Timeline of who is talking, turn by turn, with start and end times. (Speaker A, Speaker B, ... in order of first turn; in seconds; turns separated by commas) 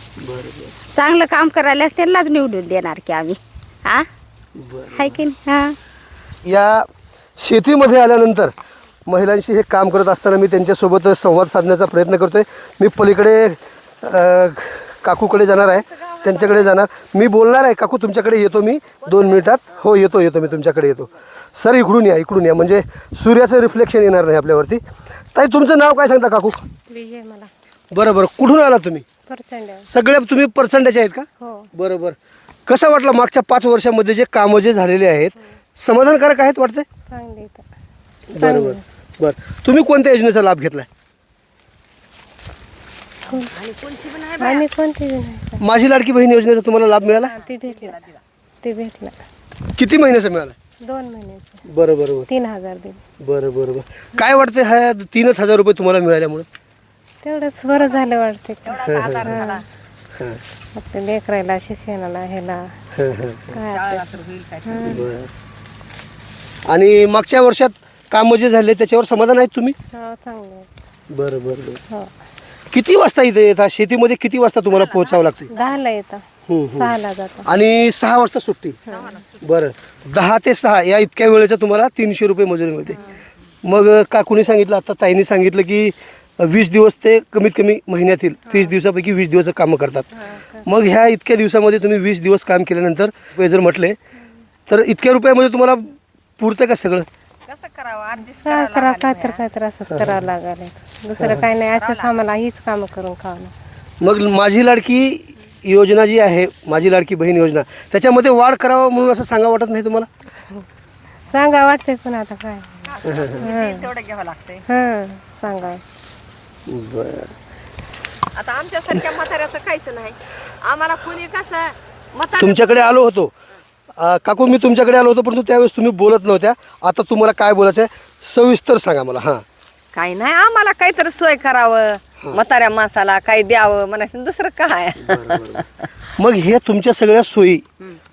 Speaker A: 0.2-0.8, Speaker B: 0.9-4.1, Speaker A: 4.6-5.2, Speaker B: 4.9-5.8, Speaker A: 6.4-8.5, Speaker A: 9.1-24.8, Speaker C: 15.6-16.7, Speaker A: 25.3-26.6, Speaker D: 26.9-27.5, Speaker A: 27.9-29.1, Speaker D: 29.3-29.9, Speaker A: 29.9-32.1, Speaker D: 31.4-31.7, Speaker A: 32.7-36.9, Speaker D: 37.1-37.6, Speaker A: 38.3-40.9, Speaker D: 38.4-38.8, Speaker C: 43.3-44.7, Speaker D: 44.4-45.6, Speaker A: 45.6-47.3, Speaker C: 47.2-48.2, Speaker D: 47.4-48.0, Speaker D: 48.6-49.1, Speaker A: 49.7-50.5, Speaker D: 50.8-51.6, Speaker A: 51.6-52.3, Speaker D: 52.3-53.0, Speaker A: 53.2-56.5, Speaker D: 57.2-59.6, Speaker C: 58.6-59.6, Speaker A: 58.9-59.3, Speaker A: 60.1-60.4, Speaker D: 60.7-62.7, Speaker A: 62.9-63.5, Speaker D: 63.5-64.0, Speaker C: 63.6-65.0, Speaker D: 64.6-65.0, Speaker A: 64.8-65.3, Speaker A: 66.7-69.7, Speaker D: 69.9-70.7, Speaker A: 71.1-71.8, Speaker A: 72.7-75.5, Speaker D: 75.5-77.5, Speaker A: 76.5-78.8, Speaker C: 78.9-79.4, Speaker A: 79.4-83.1, Speaker A: 83.6-90.1, Speaker A: 90.6-94.0, Speaker A: 94.7-97.1, Speaker C: 97.5-99.4, Speaker D: 98.4-103.5, Speaker A: 99.9-100.2, Speaker A: 101.2-101.5, Speaker C: 101.6-102.1, Speaker A: 104.0-110.1, Speaker D: 111.3-113.9, Speaker C: 112.8-114.6, Speaker A: 113.1-113.4, Speaker D: 114.7-115.8, Speaker A: 116.7-117.3, Speaker C: 118.3-122.9, Speaker A: 122.4-123.3, Speaker A: 124.0-129.4, Speaker C: 129.9-135.6, Speaker A: 135.0-135.6, Speaker A: 136.2-137.6